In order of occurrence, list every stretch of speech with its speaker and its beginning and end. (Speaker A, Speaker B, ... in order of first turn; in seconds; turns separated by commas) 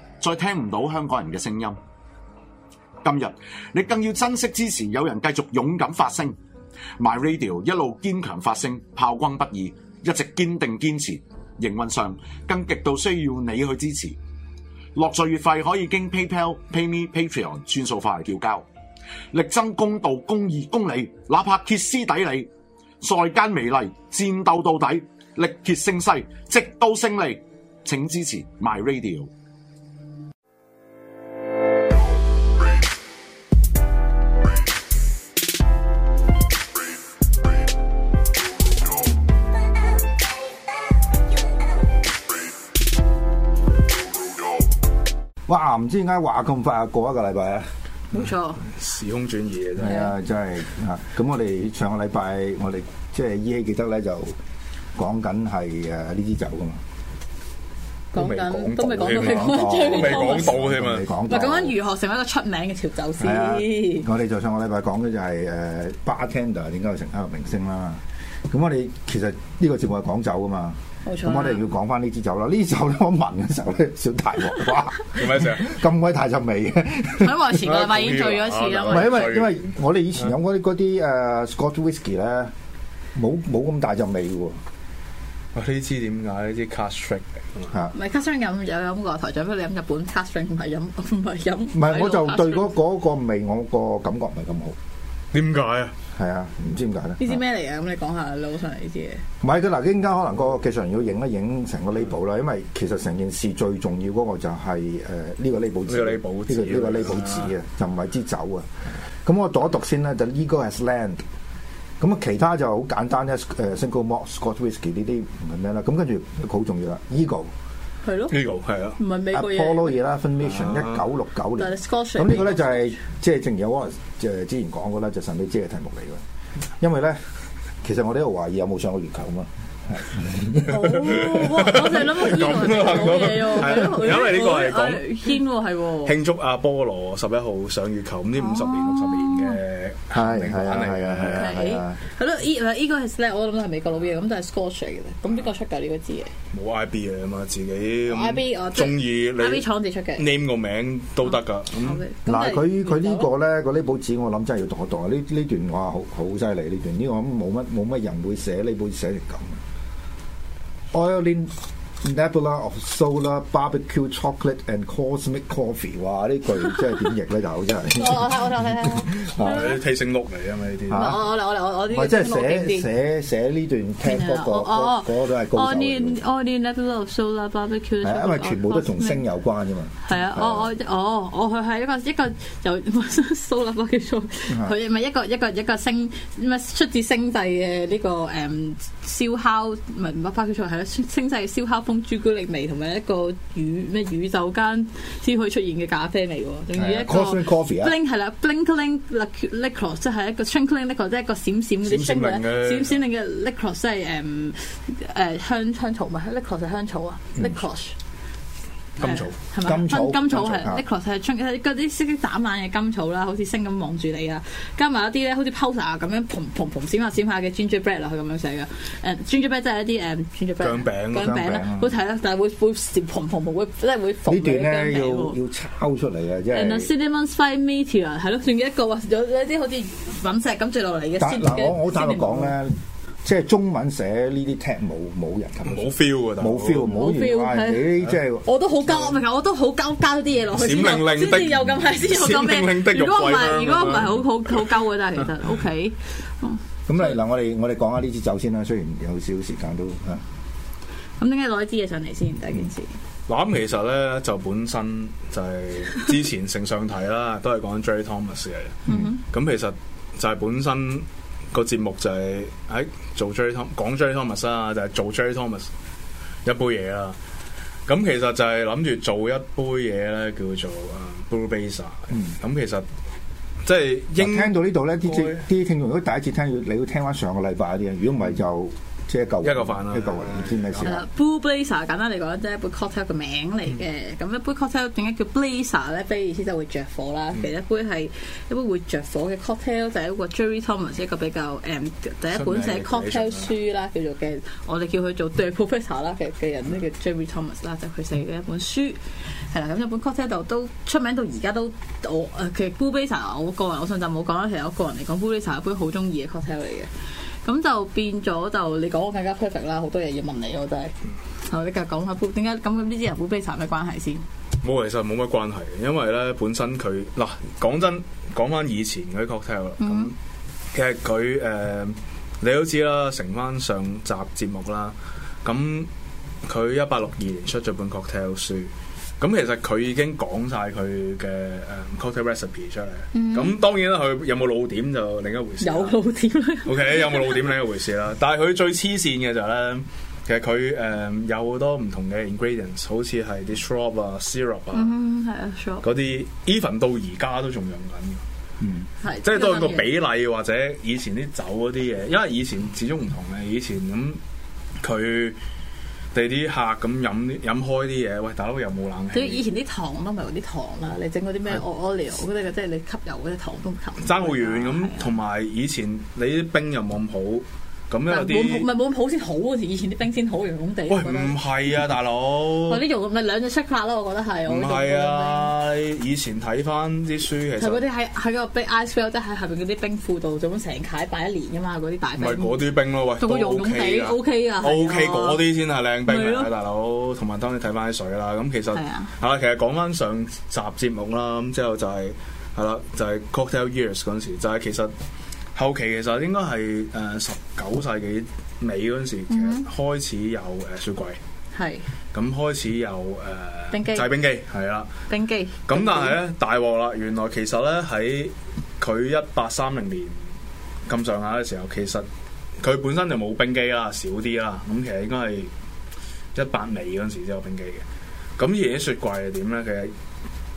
Speaker A: 0.2-1.8, Speaker A: 3.0-6.4, Speaker A: 7.0-14.2, Speaker A: 14.9-18.7, Speaker A: 19.3-22.5, Speaker A: 23.0-29.3, Speaker B: 45.5-47.7, Speaker C: 48.1-48.7, Speaker D: 48.6-50.0, Speaker B: 49.8-54.4, Speaker C: 49.8-50.1, Speaker B: 55.0-56.8, Speaker C: 58.1-60.6, Speaker D: 58.1-61.1, Speaker B: 59.0-61.8, Speaker C: 61.3-64.1, Speaker B: 63.2-77.6, Speaker C: 71.0-71.6, Speaker D: 75.1-75.7, Speaker C: 77.2-79.3, Speaker D: 77.6-79.8, Speaker B: 78.9-82.5, Speaker B: 83.2-84.6, Speaker D: 85.5-87.7, Speaker C: 87.9-92.7, Speaker B: 91.7-94.8, Speaker D: 95.3-96.0, Speaker B: 96.1-97.4, Speaker C: 97.2-99.2, Speaker B: 99.4-108.7, Speaker D: 105.9-107.5, Speaker B: 109.2-111.2, Speaker B: 112.0-117.5, Speaker C: 118.0-118.3, Speaker D: 118.3-119.0, Speaker C: 119.0-120.0, Speaker B: 119.3-126.2, Speaker D: 120.5-121.0, Speaker C: 121.6-122.9, Speaker B: 126.8-127.2, Speaker B: 127.8-131.3, Speaker C: 130.7-136.2, Speaker D: 130.8-135.4, Speaker D: 136.1-141.6, Speaker C: 138.4-139.6, Speaker B: 140.1-142.0, Speaker C: 141.3-146.3, Speaker D: 146.5-152.0, Speaker C: 148.1-150.3, Speaker C: 151.9-153.3, Speaker B: 152.3-159.6, Speaker B: 160.9-169.8, Speaker C: 167.9-169.8, Speaker D: 169.4-171.2, Speaker B: 170.9-171.3, Speaker C: 170.9-172.9, Speaker B: 171.9-176.2, Speaker C: 174.0-179.2, Speaker B: 178.0-180.7, Speaker C: 180.0-208.0, Speaker B: 184.5-184.7, Speaker B: 196.7-198.0, Speaker D: 201.8-203.0, Speaker D: 209.0-209.4, Speaker C: 209.0-225.4, Speaker B: 209.6-210.8, Speaker D: 220.6-221.3, Speaker B: 221.1-221.9, Speaker B: 224.2-226.9, Speaker C: 226.5-232.6, Speaker B: 231.2-238.5, Speaker D: 235.7-236.9, Speaker C: 236.8-246.6, Speaker D: 240.5-244.3, Speaker B: 246.9-250.2, Speaker C: 251.2-252.9, Speaker D: 253.3-265.7, Speaker C: 258.9-259.2, Speaker D: 266.4-267.2, Speaker D: 267.9-272.9, Speaker D: 273.6-275.4, Speaker B: 274.2-281.0, Speaker D: 279.4-281.0, Speaker C: 280.8-306.9, Speaker D: 292.3-293.5, Speaker C: 307.4-314.2, Speaker D: 314.6-320.1, Speaker C: 319.8-320.1, Speaker D: 320.7-325.9, Speaker D: 326.4-336.0, Speaker C: 333.1-333.6, Speaker C: 335.6-337.4, Speaker D: 336.6-344.9, Speaker C: 344.7-345.9, Speaker D: 345.8-348.2, Speaker C: 349.0-349.9, Speaker D: 349.2-354.2, Speaker D: 354.8-355.4, Speaker D: 356.1-359.4, Speaker C: 359.1-365.1, Speaker D: 364.0-368.7, Speaker C: 368.1-371.4, Speaker D: 370.9-372.8, Speaker C: 372.7-375.5, Speaker D: 374.5-377.8, Speaker C: 377.6-382.6, Speaker D: 382.2-394.9, Speaker C: 383.2-385.4, Speaker C: 386.1-386.5, Speaker C: 388.7-389.1, Speaker D: 395.6-401.2, Speaker C: 399.3-399.6, Speaker C: 401.5-401.9, Speaker D: 402.1-404.9, Speaker C: 403.7-404.1, Speaker C: 405.1-406.2, Speaker D: 405.7-410.3, Speaker D: 410.9-412.1, Speaker D: 412.6-415.5, Speaker D: 416.4-417.9, Speaker D: 418.4-419.9